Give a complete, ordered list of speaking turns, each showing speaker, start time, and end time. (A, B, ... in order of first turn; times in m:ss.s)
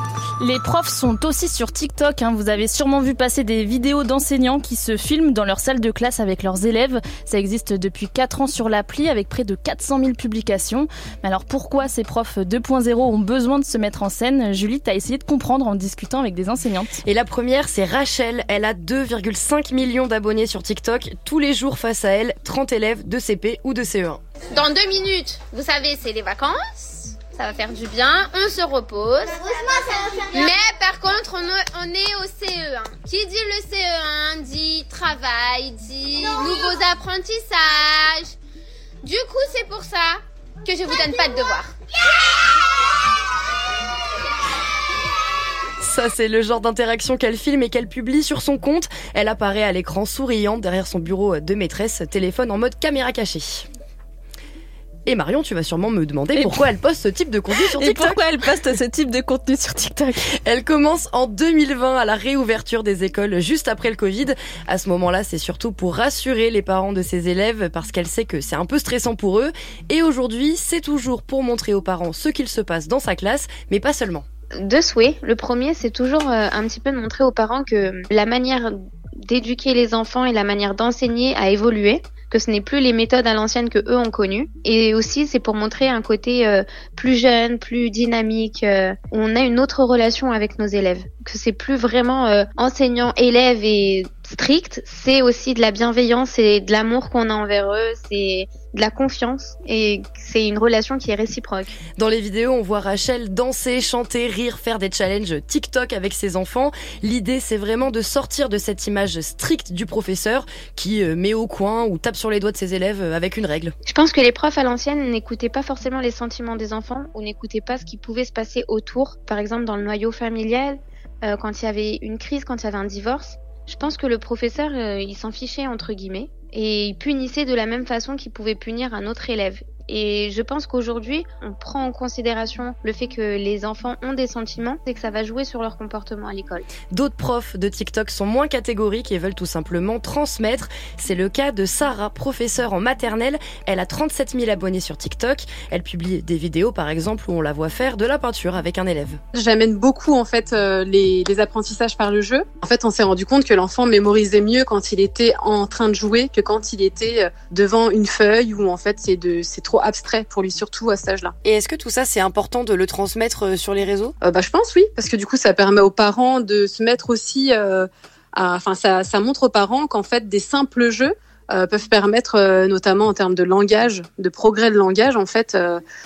0:00.4-0:16.9 A
0:17.0-0:24.2 B
0:24.6-0:26.5 C
0:27.4-0:29.4 C
0:30.4-0:38.2 C
0:39.0-0:40.1 C
0:40.7-0:41.7 C
0:45.8-0:53.7 B
0:55.1-0:58.2 B
0:56.4-0:56.7 A
0:57.5-1:00.2 A
1:00.4-1:14.2 B
1:14.6-1:41.8 D
1:42.0-1:53.8 B
1:53.9-2:16.7 D
2:16.9-2:29.2 B
2:29.3-2:41.3 E
2:41.4-2:44.2 B
2:44.2-2:55.8 E